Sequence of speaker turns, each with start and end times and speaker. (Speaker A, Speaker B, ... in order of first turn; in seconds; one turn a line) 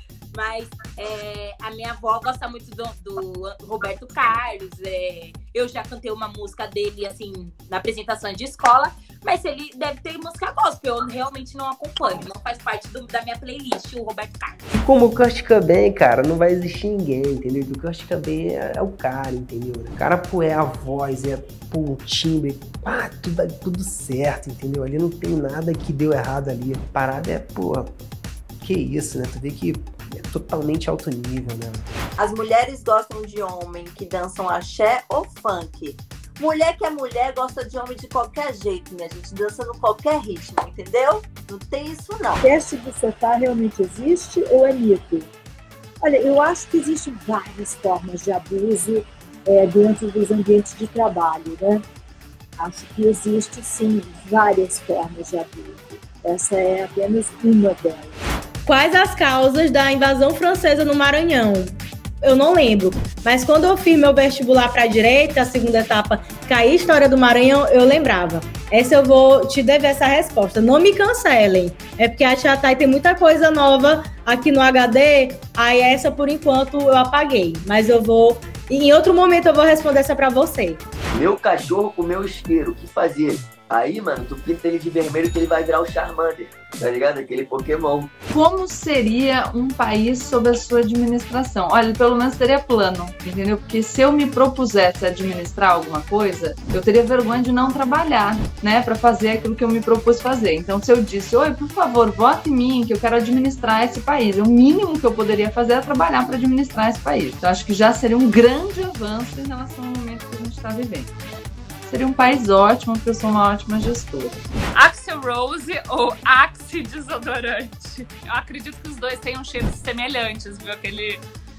Speaker A: 0.3-14.6
Speaker B: 14.7-27.9
Speaker B: 28.6-31.9
Speaker C: 32.2-42.4
Speaker D: 42.4-45.3
Speaker D: 46.0-51.8
Speaker D: 52.6-58.2
Speaker E: 58.6-80.8
Speaker F: 81.1-88.1
Speaker G: 88.3-111.1
Speaker G: 111.9-114.3
Speaker H: 114.8-121.2